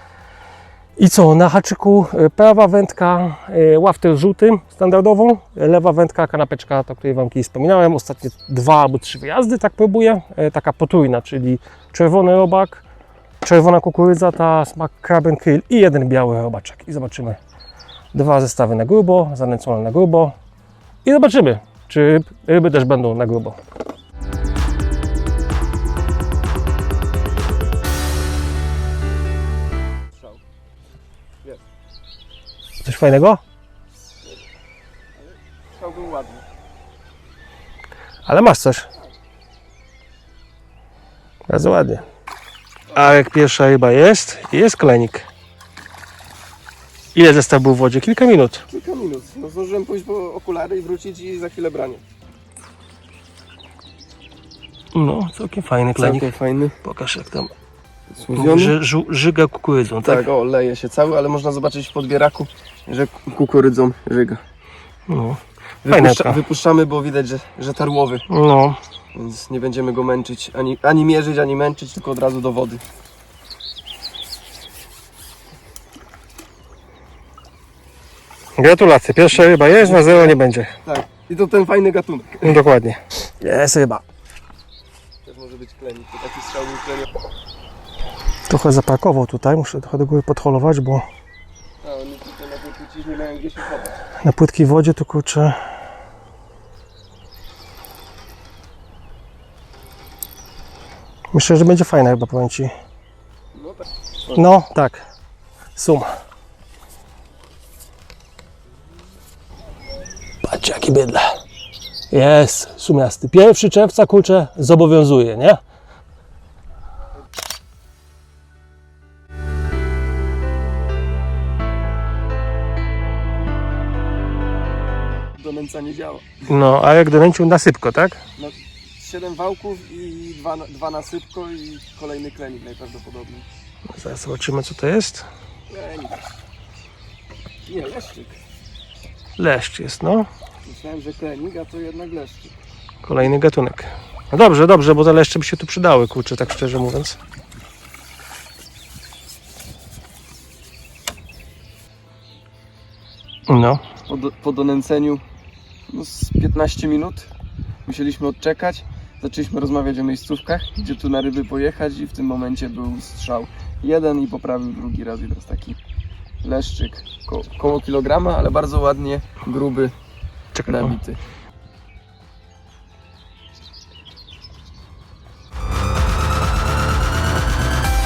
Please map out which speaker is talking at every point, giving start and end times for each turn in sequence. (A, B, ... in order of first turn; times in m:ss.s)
0:01.0-0:12.8 A
0:13.4-0:17.4 A
0:18.1-0:20.3 A
0:21.0-0:23.6 A
0:32.8-0:33.4 A
0:35.7-0:36.4 B
0:38.3-0:38.9 A
0:41.5-0:42.0 A
0:42.9-0:45.3 A
0:47.2-0:48.7 A
0:48.7-0:52.0 B
0:54.9-0:56.3 A
0:56.0-0:56.8 B
0:56.8-0:57.5 A
0:58.2-0:58.8 B
0:58.3-1:00.2 A
1:00.0-1:04.4 B
1:05.1-1:06.4 A
1:05.8-1:08.2 B
1:08.3-1:08.8 A
1:09.2-1:12.8 B
1:18.6-1:20.7 A
1:19.8-1:22.6 B
1:22.4-1:24.0 A
1:25.2-1:27.1 B
1:28.5-1:31.1 A
1:31.8-1:34.0 B
1:34.2-1:35.6 A
1:41.3-1:42.7 A
1:43.6-1:44.4 B
1:44.3-1:45.0 A
1:45.8-1:46.1 A
1:50.4-1:51.3 A
1:52.1-1:55.6 A
2:05.4-2:06.4 B
2:06.5-2:08.2 A
2:08.4-2:13.5 B
2:13.9-2:15.3 A
2:15.7-2:16.3 B
2:17.7-2:18.4 B
2:19.4-2:20.3 A
2:20.7-2:22.5 B
2:23.0-2:27.2 A
2:33.5-2:33.8 A
2:34.1-2:35.2 B
2:35.9-2:37.3 B
2:37.9-2:45.8 B
2:46.4-2:49.9 B
2:50.6-2:51.0 A
2:50.7-2:51.2 B